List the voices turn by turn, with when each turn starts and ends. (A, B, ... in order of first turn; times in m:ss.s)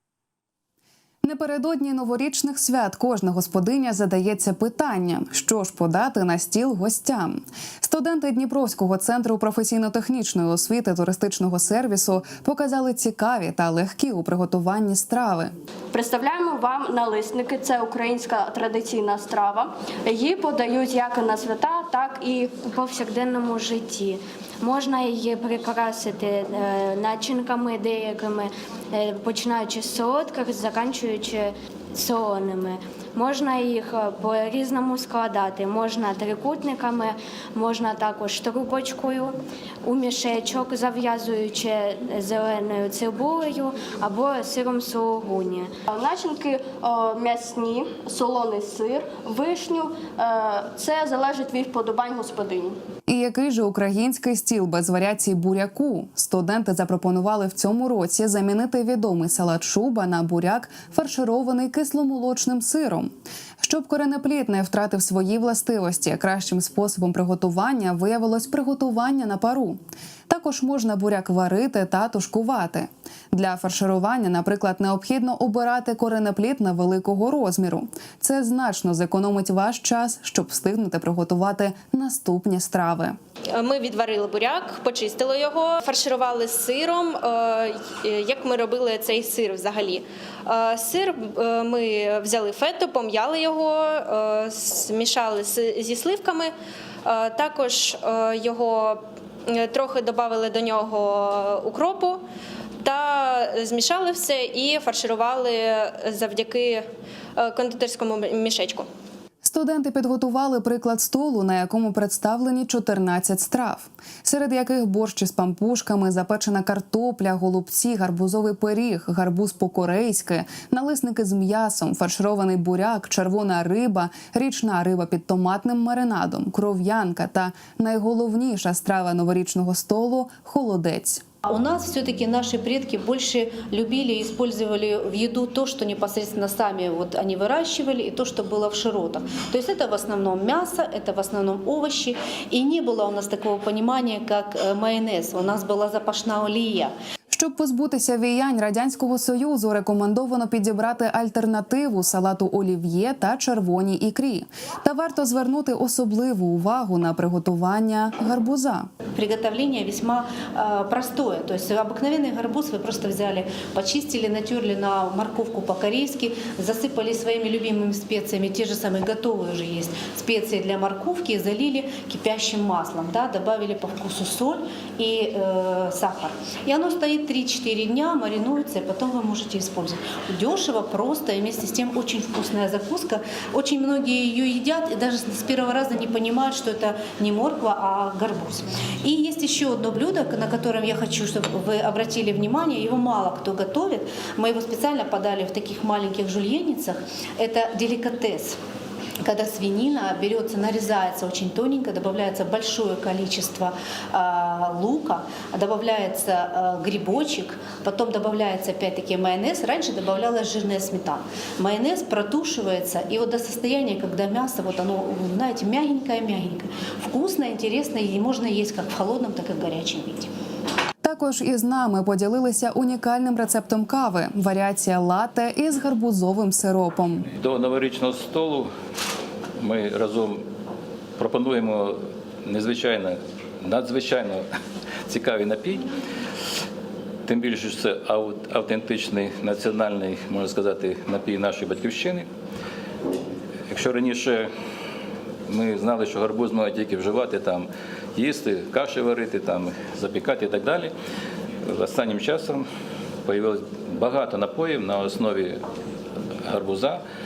0:01.2-0:15.5 A
0:15.9-0:22.6 B
0:22.6-0:39.3 C
0:39.8-0:45.7 C
0:45.9-0:52.8 B
0:53.1-1:23.2 A
1:23.6-1:36.5 D
1:37.0-1:42.2 D
1:42.8-1:46.8 D
1:47.4-1:48.9 D
1:49.4-2:11.2 A
2:11.5-2:26.9 E
2:27.3-2:38.9 A
2:39.2-3:18.6 E
3:19.2-3:40.3 E
3:41.0-3:47.3 A
3:47.4-3:48.7 F
3:49.6-3:50.4 F
3:51.2-3:54.4 F
3:55.1-3:55.9 F
3:57.3-4:02.3 F
4:03.7-4:04.5 F
4:05.5-4:10.9 F
4:11.6-4:12.6 F
4:13.2-4:15.6 F
4:16.4-4:17.0 F